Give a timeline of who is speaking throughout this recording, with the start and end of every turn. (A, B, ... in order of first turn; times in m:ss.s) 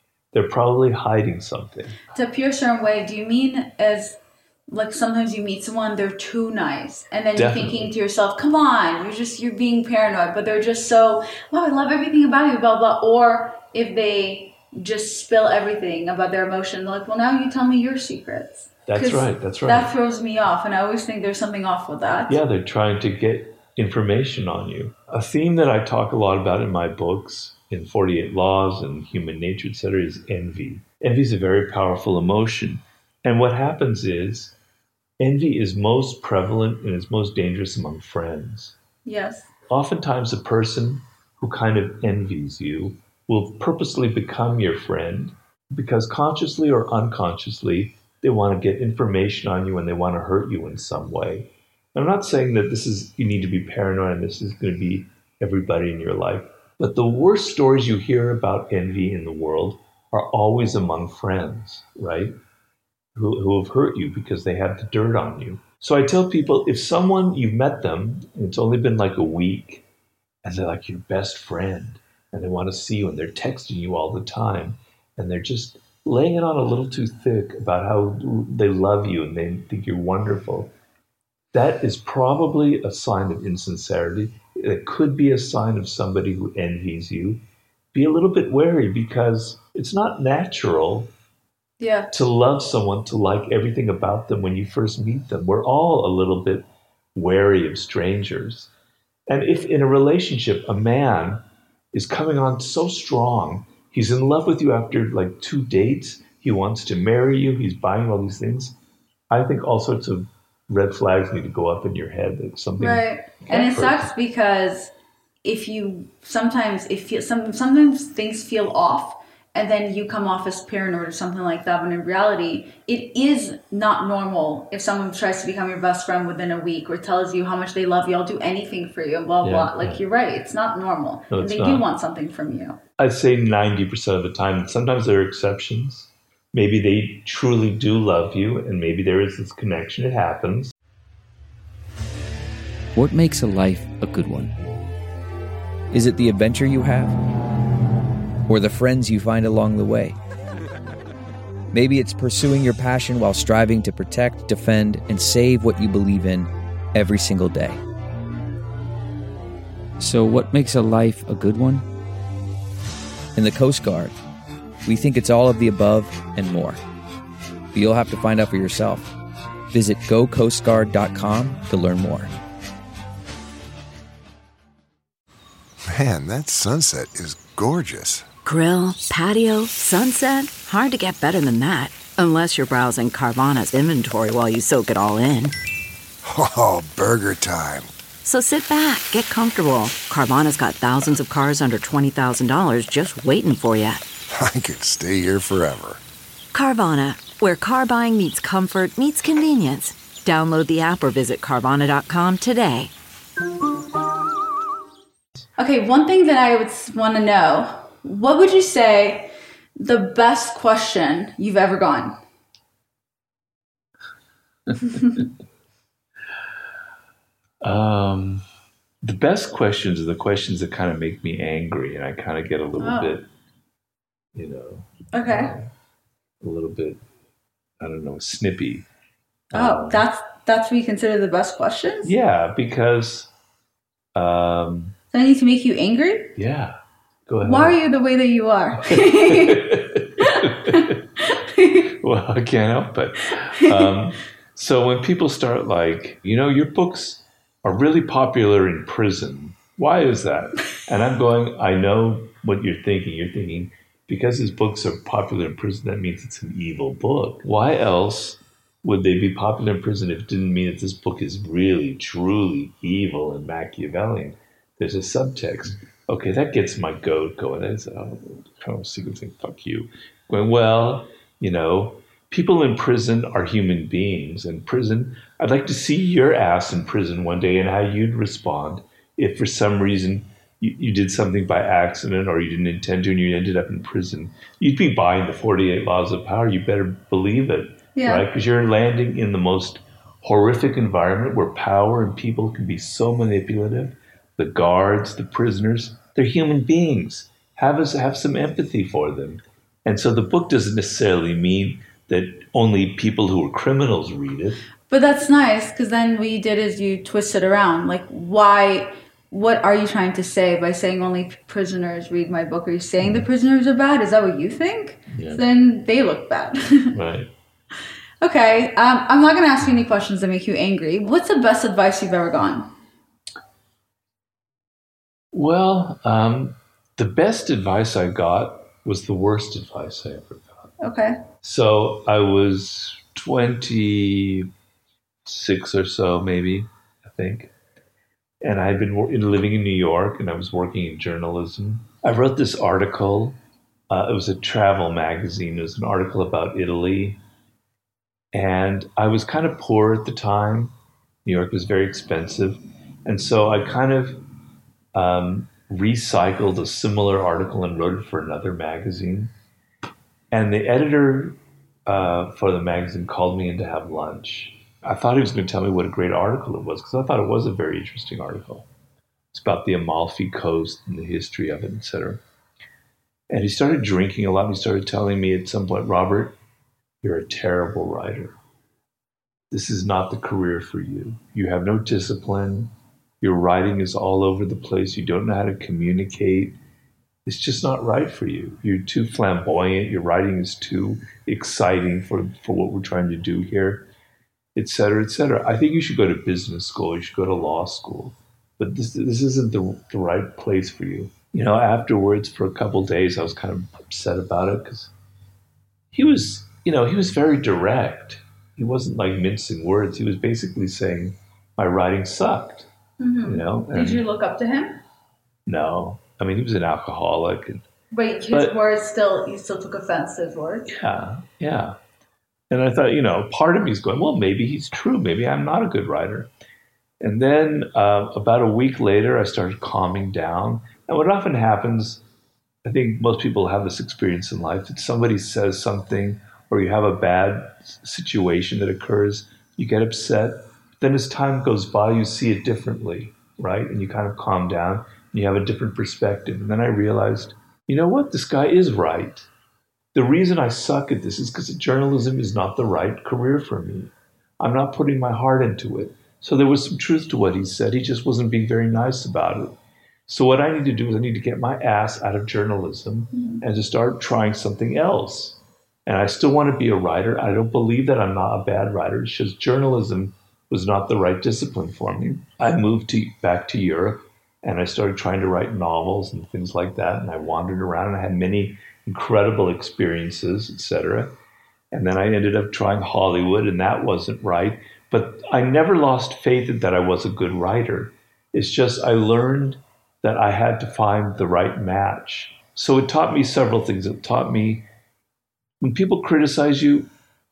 0:00.3-0:02.0 A
0:02.1-0:22.4 B
0:07.3-0:07.9 A
0:18.9-0:19.9 A
0:22.3-0:34.6 A
0:35.2-0:38.8 A
0:39.0-0:39.5 B
0:39.7-1:02.4 A
1:03.1-1:09.8 A
1:10.4-1:20.7 A
1:21.5-1:31.1 A
1:31.8-1:32.1 B
1:32.1-1:38.7 A
1:39.3-1:48.8 A
1:49.3-1:54.1 A
1:52.8-1:54.9 B
1:55.4-2:12.8 B
2:09.4-2:10.0 A
2:11.3-2:11.8 A
2:13.0-2:20.7 A
2:22.9-2:24.5 C
2:25.9-2:27.2 C
2:28.5-2:30.2 C
2:31.7-2:37.8 C
2:40.0-2:41.8 C
2:43.3-2:44.2 C
2:44.8-2:46.8 C
2:47.7-2:49.1 C
2:49.7-2:52.3 C
2:55.9-2:58.2 D
2:58.4-3:05.5 E
3:06.2-3:07.9 D
3:08.2-3:14.0 E
3:14.3-3:16.0 D
3:16.5-3:22.9 E
3:25.6-3:32.2 B
3:37.6-3:38.4 A
3:39.0-3:43.3 A
3:42.8-3:43.1 B
3:44.3-3:45.7 A
3:45.1-3:45.5 B
3:46.4-3:47.0 A
3:47.8-3:48.9 A
3:49.5-3:50.0 A
3:49.5-3:52.1 B
3:52.0-3:53.3 A
3:54.1-3:55.0 A
3:55.1-3:56.4 B
3:56.3-3:57.8 A
3:57.4-4:01.9 B
3:58.8-4:01.0 A
4:01.8-5:04.6 A
4:47.9-4:48.2 B
5:04.9-5:17.0 B
5:15.1-5:15.4 A
5:16.9-5:17.3 A
5:18.2-5:22.7 B
5:25.3-5:30.7 A
5:30.8-5:31.2 B
5:31.4-5:34.5 A
5:35.2-5:37.5 A
5:38.4-5:43.4 A
5:43.9-5:47.2 A
5:48.3-5:50.7 A
5:51.2-5:54.2 A
5:54.9-5:59.3 A
6:00.3-6:08.7 A
6:09.3-6:12.2 A
6:13.3-6:16.4 A
6:17.0-6:18.4 A
6:19.5-6:26.6 A
6:27.2-6:33.9 A
6:34.5-6:44.9 A
6:45.9-6:52.7 A
6:53.0-6:54.8 B
6:53.2-6:54.0 A
6:55.4-6:57.6 A
6:57.9-7:00.7 B
6:58.3-6:58.6 A
7:00.7-7:01.8 A
7:02.5-7:06.3 A
7:07.0-7:12.0 A
7:12.6-7:29.3 A
7:29.9-8:01.2 A
7:43.1-7:43.4 B
8:01.7-8:14.7 A
8:15.6-8:16.9 A